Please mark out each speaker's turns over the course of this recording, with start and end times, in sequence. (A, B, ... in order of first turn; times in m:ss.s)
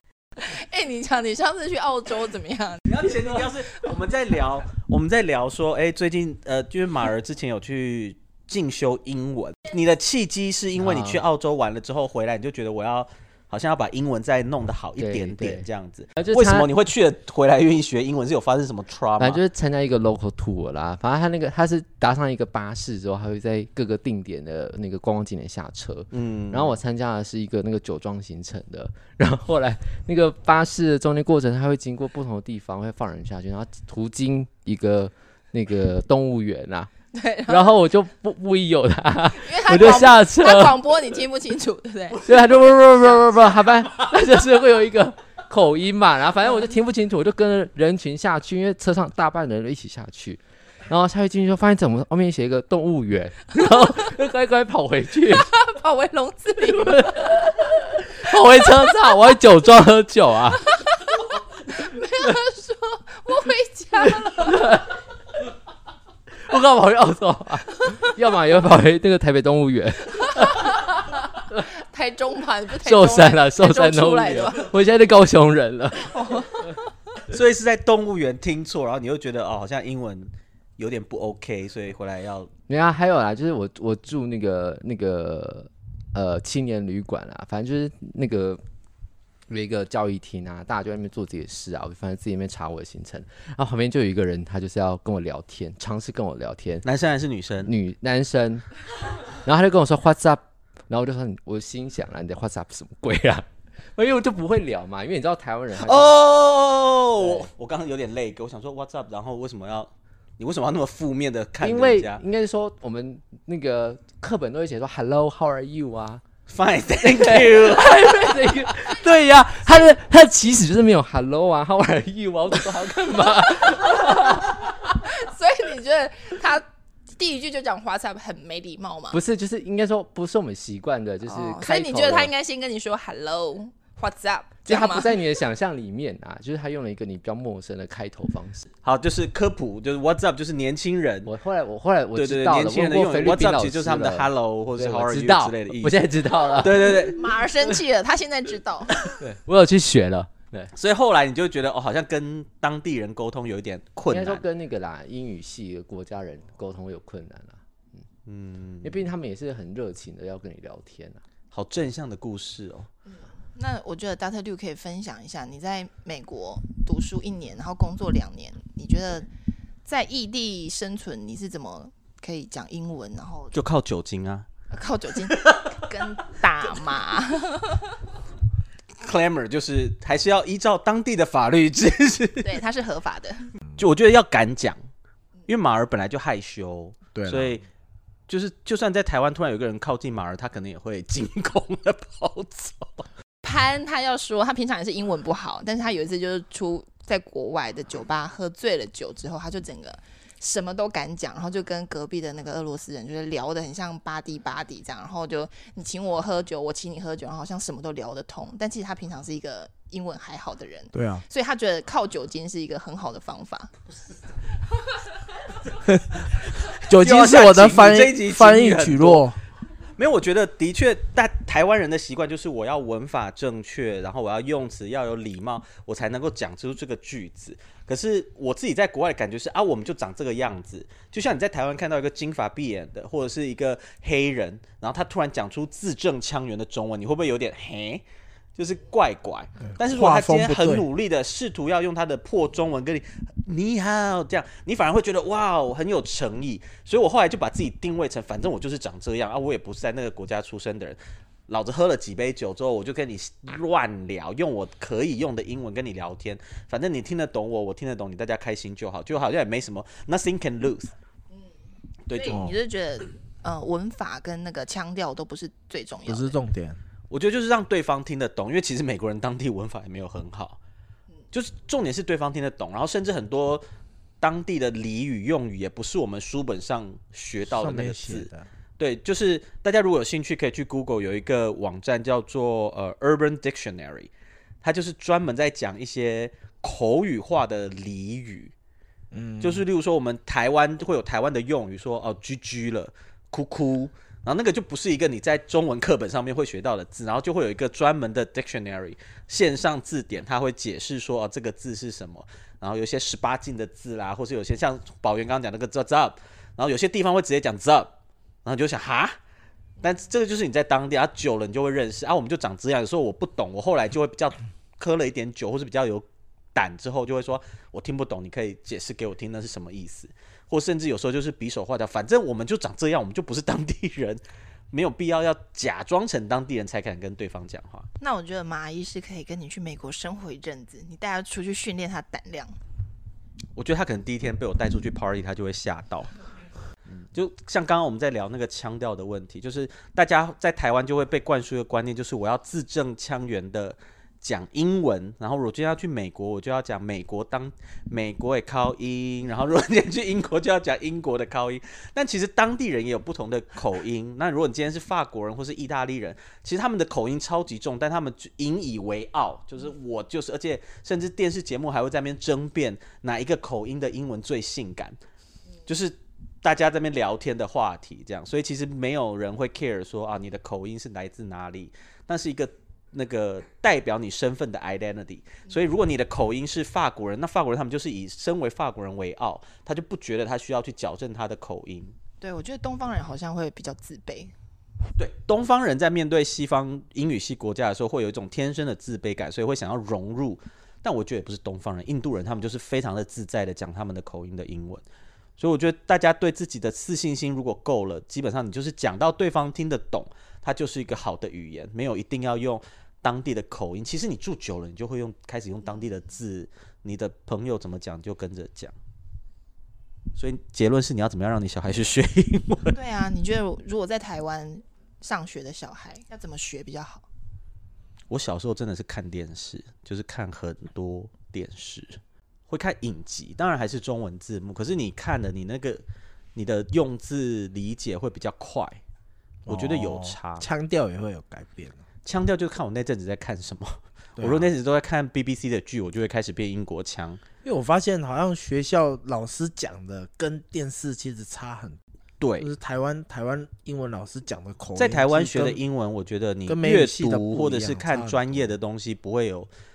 0:00.4-0:02.8 A
0:02.8-0:19.4 B
0:10.8-0:11.2 C
0:15.0-0:16.7 C
0:19.2-0:36.9 C
0:26.1-0:26.7 B
0:37.1-0:37.8 A
0:37.5-0:40.8 C
0:39.4-0:42.2 A
0:42.2-0:55.5 C
0:42.3-0:42.6 B
0:55.3-0:57.1 A
0:56.6-1:00.6 C
1:01.7-1:04.7 A
1:04.2-1:04.9 C
1:06.5-1:10.7 C
1:10.4-1:10.8 A
1:11.7-1:14.6 A
1:12.8-1:16.2 C
1:16.1-1:16.5 A
1:17.3-1:22.5 B
1:22.7-1:28.6 C
1:29.5-1:36.8 C
1:36.8-1:37.7 B
1:37.6-1:38.6 C
1:39.4-1:46.2 C
1:45.8-1:52.2 B
1:47.2-1:47.5 C
1:51.6-1:56.2 C
1:56.5-1:58.3 B
1:57.0-2:04.6 C
2:05.0-2:09.2 A
2:09.1-2:12.3 C
2:11.2-2:15.1 A
2:14.6-2:18.6 C
2:18.8-2:21.3 B
2:21.2-2:27.0 C
2:22.1-2:26.0 B
2:26.5-2:27.2 B
2:26.8-2:28.9 A
2:29.2-2:30.7 C
2:30.7-2:34.4 B
2:34.1-2:37.6 C
2:38.2-2:39.0 B
2:38.8-2:41.2 C
2:41.5-2:42.9 B
2:43.1-2:49.3 A
2:49.8-2:53.6 A
2:53.5-2:54.5 B
2:54.7-2:57.8 A
2:59.0-3:02.6 B
3:02.4-3:03.5 A
3:03.8-3:04.8 B
3:05.5-3:07.6 B
3:07.1-3:07.6 D
3:08.3-3:13.1 B
3:13.4-3:33.7 A
3:30.9-3:31.2 D
3:36.9-3:39.4 D
3:36.9-3:39.3 B
3:40.0-3:58.0 B
3:58.6-4:20.9 B
3:59.7-4:00.8 D
4:22.1-4:22.4 B
4:22.1-4:26.4 A
4:22.3-4:22.6 D
4:26.1-4:26.8 D
4:27.1-4:30.6 B
4:31.3-4:33.6 B
4:34.2-4:44.1 B
4:37.4-4:38.5 D
4:44.6-4:48.5 B
4:49.1-4:49.6 D
4:49.4-5:07.9 B
5:08.4-5:09.2 B
5:09.8-5:24.2 B
5:24.7-5:27.9 B
5:28.0-5:32.6 A
5:33.6-5:36.1 B
5:37.1-6:05.0 B
6:05.6-6:21.9 B
6:22.2-6:24.3 A
6:25.0-6:34.8 B
6:35.4-6:48.7 B
6:50.2-6:52.8 B
6:52.7-6:57.0 A
6:58.1-7:05.8 B
7:06.3-7:08.8 B
7:09.4-7:11.8 D
7:09.5-7:10.5 B
7:12.0-7:17.2 B
7:14.2-7:14.5 D
7:17.4-7:21.8 D
7:22.2-7:22.5 B
7:22.4-7:25.6 D
7:24.8-7:29.5 B
7:26.5-7:28.5 D